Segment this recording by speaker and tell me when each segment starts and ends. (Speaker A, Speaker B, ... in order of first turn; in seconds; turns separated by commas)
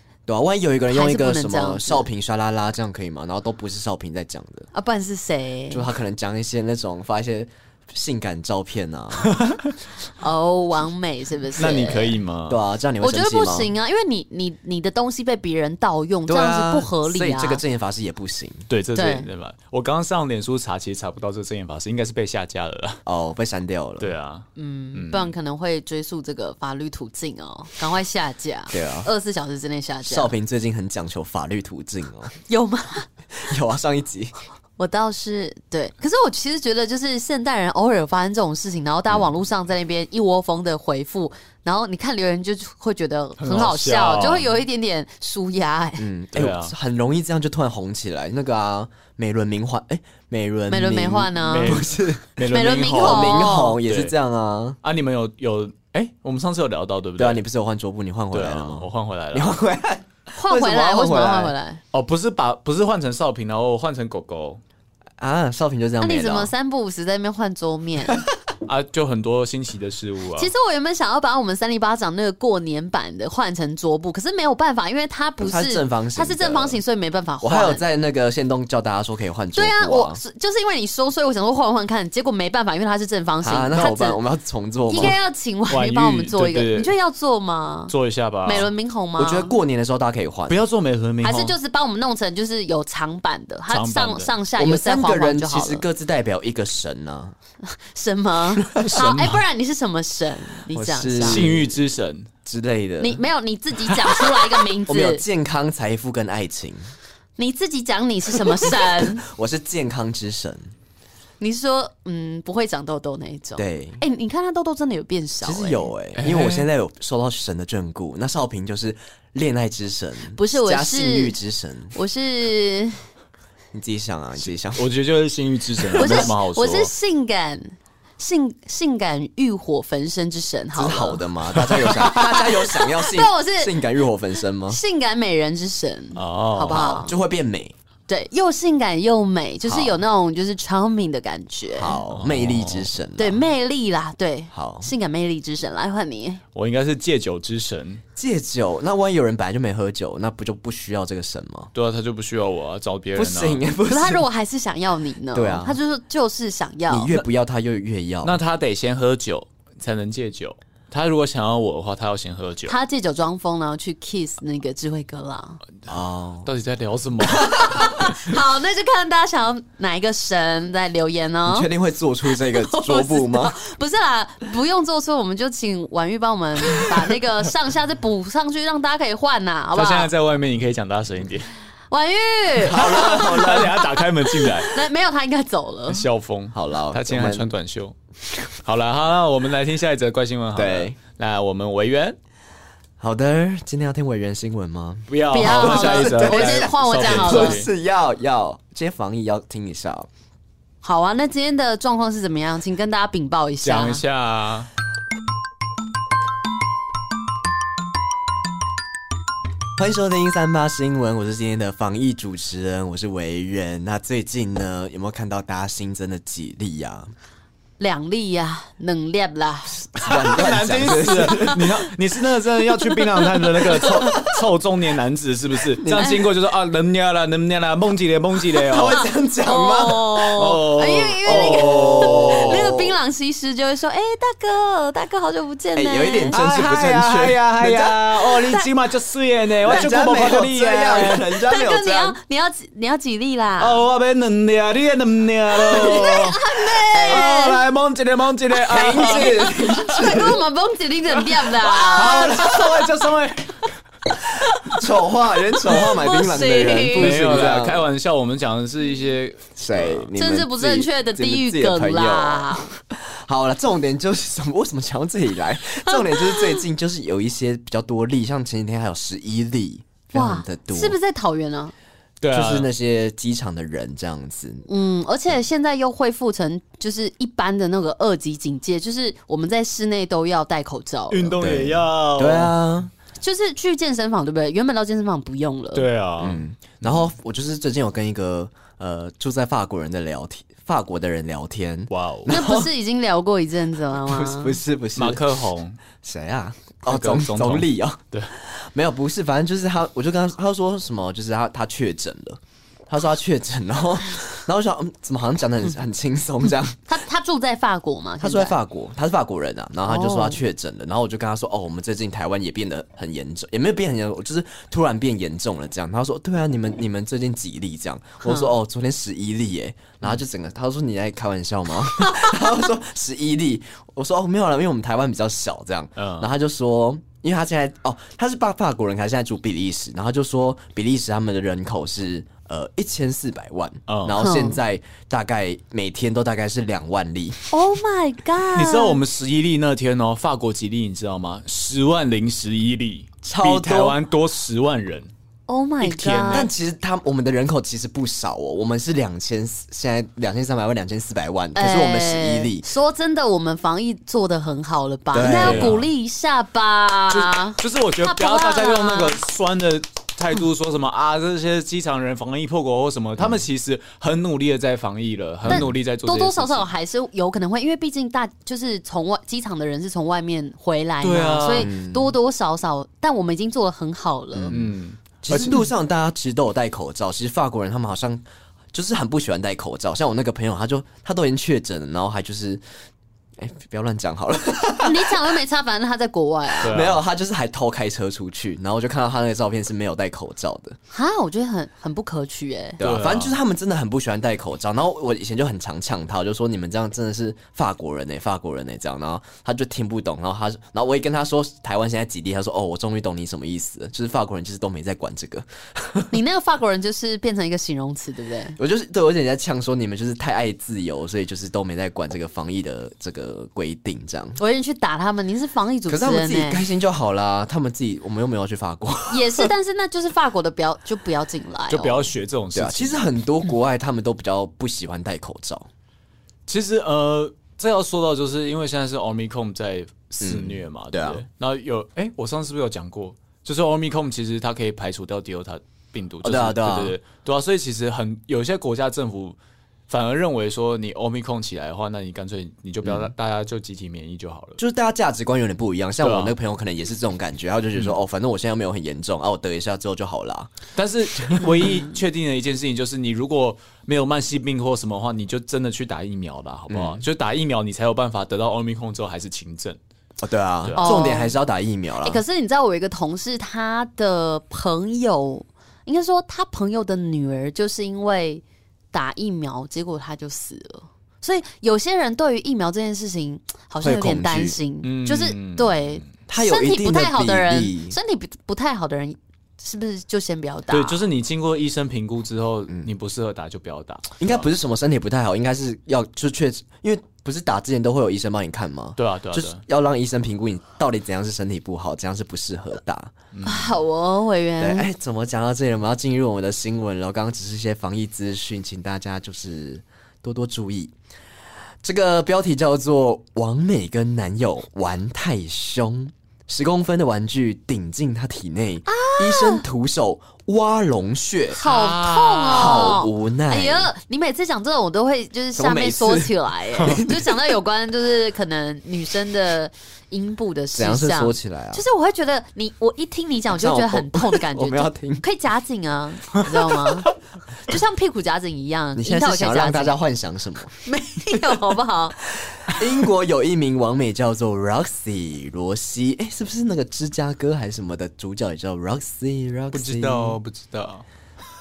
Speaker A: 0.3-4.7, Speaker B: 0.9-2.1, Speaker B: 4.7-5.9, Speaker A: 5.7-9.4, Speaker C: 9.2-9.7, Speaker B: 10.2-12.2, Speaker C: 11.6-12.6, Speaker A: 12.5-13.7, Speaker B: 13.0-17.6, Speaker A: 16.3-18.6, Speaker C: 18.7-23.0, Speaker B: 18.9-19.3, Speaker A: 23.1-24.1, Speaker C: 24.0-25.3, Speaker B: 24.6-30.3, Speaker A: 28.7-29.1, Speaker A: 30.1-32.4, Speaker B: 32.5-33.1, Speaker A: 33.4-34.3, Speaker B: 34.8-46.1, Speaker C: 43.4-44.5, Speaker A: 46.0-52.3, Speaker C: 46.3-46.7, Speaker B: 50.7-51.8, Speaker C: 51.4-54.1, Speaker B: 52.5-53.8, Speaker A: 53.0-54.8, Speaker C: 54.8-57.4, Speaker A: 57.2-61.5, Speaker C: 58.3-59.6, Speaker B: 60.4-61.8, Speaker C: 61.9-64.6, Speaker A: 65.2-66.5, Speaker B: 66.0-68.2, Speaker C: 68.6-70.5, Speaker B: 70.4-77.8, Speaker A: 75.4-76.8, Speaker A: 77.4-80.2, Speaker B: 79.5-84.2, Speaker A: 83.4-85.2, Speaker B: 84.9-87.9, Speaker C: 85.7-86.9, Speaker C: 87.9-88.7, Speaker B: 88.4-89.5, Speaker A: 89.2-90.6, Speaker C: 90.5-91.6, Speaker B: 91.2-95.8, Speaker C: 93.7-94.3, Speaker A: 94.6-97.3, Speaker B: 97.6-101.5, Speaker C: 98.8-99.4, Speaker A: 100.7-101.8, Speaker C: 101.2-102.3, Speaker A: 102.4-103.2, Speaker B: 103.0-105.2, Speaker A: 104.9-106.9, Speaker B: 107.4-109.2, Speaker A: 108.6-110.7, Speaker B: 111.4-115.9, Speaker A: 113.6-114.0, Speaker A: 115.4-121.9, Speaker C: 116.2-116.7, Speaker B: 120.3-121.4, Speaker B: 121.9-123.0, Speaker A: 123.7-124.9, Speaker C: 124.7-126.9, Speaker A: 125.8-126.3, Speaker B: 126.0-131.2, Speaker A: 130.7-134.8, Speaker B: 131.8-133.8, Speaker B: 134.7-137.1, Speaker C: 136.2-136.8, Speaker A: 136.6-137.7, Speaker B: 138.1-142.0, Speaker A: 139.7-140.0, Speaker A: 141.7-143.4, Speaker C: 142.1-142.9, Speaker B: 143.2-146.4, Speaker A: 144.5-144.9, Speaker C: 146.5-148.0, Speaker A: 148.2-151.7, Speaker C: 151.7-153.6, Speaker A: 153.1-154.2, Speaker B: 153.9-157.1, Speaker A: 155.3-155.8, Speaker A: 156.9-158.4, Speaker C: 158.2-162.7, Speaker B: 162.7-165.6, Speaker A: 165.9-166.5, Speaker C: 166.4-168.1, Speaker B: 167.4-171.7, Speaker A: 171.5-173.6, Speaker B: 172.2-180.1, Speaker C: 179.7-181.5, Speaker B: 181.9-186.1, Speaker A: 182.6-183.9, Speaker C: 182.7-184.8, Speaker C: 185.9-187.9, Speaker A: 186.5-187.5, Speaker C: 188.6-192.2, Speaker A: 190.6-191.0, Speaker A: 193.0-200.1, Speaker C: 195.1-197.7, Speaker B: 195.3-197.6, Speaker B: 200.8-204.0, Speaker C: 203.6-204.7, Speaker A: 209.8-217.1, Speaker B: 217.8-219.9, Speaker A: 219.9-221.7, Speaker C: 220.0-229.0, Speaker B: 223.6-224.1, Speaker A: 223.7-224.3, Speaker A: 225.8-226.2, Speaker B: 225.9-226.2, Speaker A: 228.6-230.3, Speaker B: 228.7-236.4, Speaker C: 230.3-232.7, Speaker A: 231.2-232.9, Speaker A: 235.8-238.1, Speaker C: 236.3-241.4, Speaker A: 239.6-242.2, Speaker B: 241.4-243.8, Speaker C: 243.6-250.0, Speaker B: 245.5-247.6, Speaker A: 246.9-247.3, Speaker A: 248.7-250.4, Speaker B: 248.9-252.6, Speaker C: 251.5-253.7, Speaker A: 252.0-252.7, Speaker B: 254.4-254.8, Speaker A: 254.6-257.9, Speaker B: 255.7-257.3, Speaker C: 256.9-260.1, Speaker A: 259.6-270.9, Speaker B: 260.2-262.7, Speaker B: 265.9-266.6, Speaker B: 270.1-271.7, Speaker C: 272.2-272.7, Speaker A: 272.3-274.6, Speaker B: 274.7-281.4, Speaker C: 281.1-282.5, Speaker A: 281.4-282.9, Speaker B: 283.2-285.9, Speaker C: 285.7-287.0, Speaker A: 286.2-292.7, Speaker C: 291.9-292.3, Speaker B: 292.3-294.6, Speaker A: 294.0-295.2, Speaker C: 294.9-295.8, Speaker A: 296.0-306.9, Speaker C: 296.9-298.3, Speaker B: 306.9-308.6, Speaker A: 308.2-337.4, Speaker B: 309.9-310.4, Speaker B: 318.2-318.5, Speaker B: 321.9-322.4, Speaker C: 325.9-326.3, Speaker C: 333.9-334.2, Speaker B: 334.2-334.6, Speaker B: 337.5-339.0, Speaker C: 338.6-345.1, Speaker A: 343.2-344.0, Speaker B: 345.5-346.5, Speaker C: 345.8-346.5, Speaker A: 346.3-352.7, Speaker B: 351.6-359.2, Speaker A: 355.1-355.8, Speaker C: 355.2-355.9, Speaker C: 357.1-366.7, Speaker A: 363.2-363.4, Speaker A: 365.4-365.7, Speaker B: 365.5-374.6, Speaker C: 371.0-371.7, Speaker A: 371.5-372.1, Speaker A: 374.4-382.6, Speaker C: 374.5-375.5, Speaker B: 375.3-375.6, Speaker A: 383.4-385.4, Speaker B: 384.8-386.8, Speaker C: 386.6-387.0, Speaker A: 386.6-390.8, Speaker B: 390.9-392.8, Speaker A: 392.8-406.1, Speaker C: 392.8-393.4, Speaker B: 406.1-408.6, Speaker A: 408.6-414.4, Speaker B: 414.4-416.6, Speaker A: 415.9-419.5, Speaker B: 419.1-422.1, Speaker C: 421.7-423.1, Speaker A: 422.5-425.7, Speaker C: 426.5-439.4, Speaker A: 430.2-431.2, Speaker A: 436.2-436.9, Speaker C: 439.9-444.6, Speaker A: 442.8-443.1, Speaker A: 444.6-450.5, Speaker C: 446.0-446.4, Speaker C: 450.8-459.8, Speaker A: 451.2-451.8, Speaker A: 456.7-457.1, Speaker A: 460.2-462.2, Speaker C: 460.6-460.9, Speaker B: 460.8-461.4, Speaker B: 462.0-481.0, Speaker A: 473.8-474.6, Speaker C: 474.8-476.0, Speaker A: 476.3-478.0, Speaker C: 480.7-484.5, Speaker A: 484.2-493.1, Speaker C: 489.0-489.6, Speaker C: 493.3-493.8, Speaker B: 493.4-494.9, Speaker A: 494.6-500.9, Speaker A: 501.8-511.6, Speaker B: 508.9-509.6, Speaker B: 511.5-527.1, Speaker C: 511.6-513.0, Speaker A: 512.5-513.9, Speaker A: 515.6-517.3, Speaker A: 520.7-521.8, Speaker A: 523.5-525.2, Speaker B: 527.6-530.0, Speaker A: 528.9-530.7, Speaker B: 530.8-532.2, Speaker A: 532.4-540.4, Speaker C: 539.7-541.0